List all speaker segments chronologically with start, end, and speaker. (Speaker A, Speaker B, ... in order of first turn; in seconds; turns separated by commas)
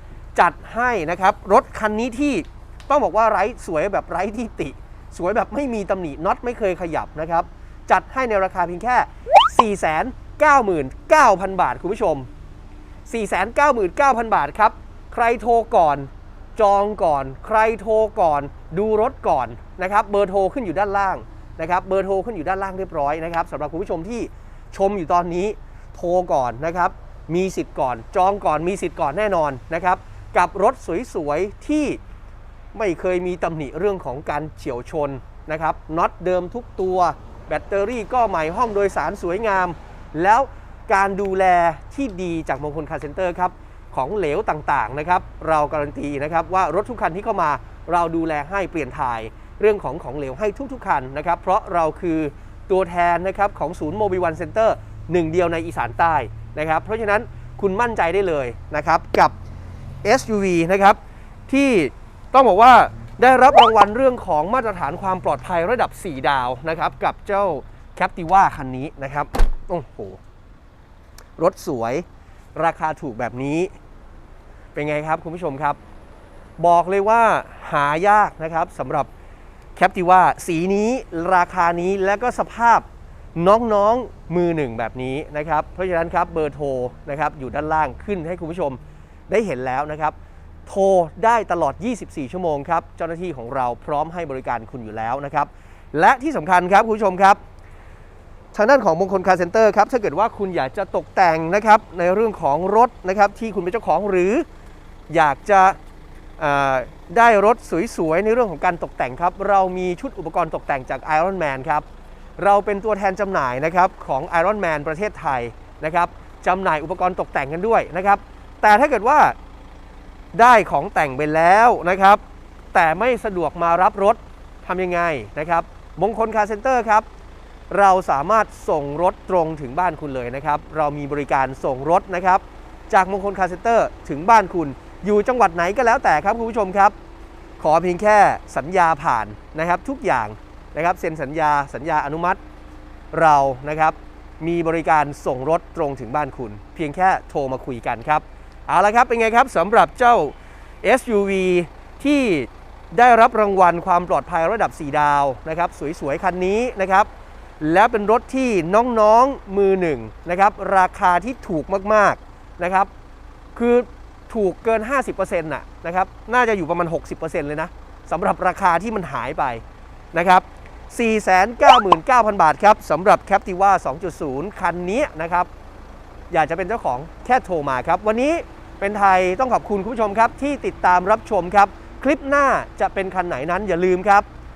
Speaker A: 0.3-12.3, Speaker A: 13.1-32.0, Speaker A: 32.7-59.4, Speaker A: 60.0-70.2, Speaker A: 71.4-73.7, Speaker A: 74.8-75.8, Speaker A: 76.6-79.1, Speaker A: 79.8-90.2, Speaker A: 90.7-97.4, Speaker A: 98.5-104.5, Speaker A: 105.1-105.8, Speaker A: 106.4-111.9, Speaker A: 112.4-119.4, Speaker A: 120.3-122.2, Speaker A: 122.7-127.1, Speaker A: 127.7-136.9, Speaker A: 137.6-142.4, Speaker A: 143.1-157.1, Speaker A: 157.6-162.9, Speaker A: 163.6-175.5, Speaker A: 176.3-184.3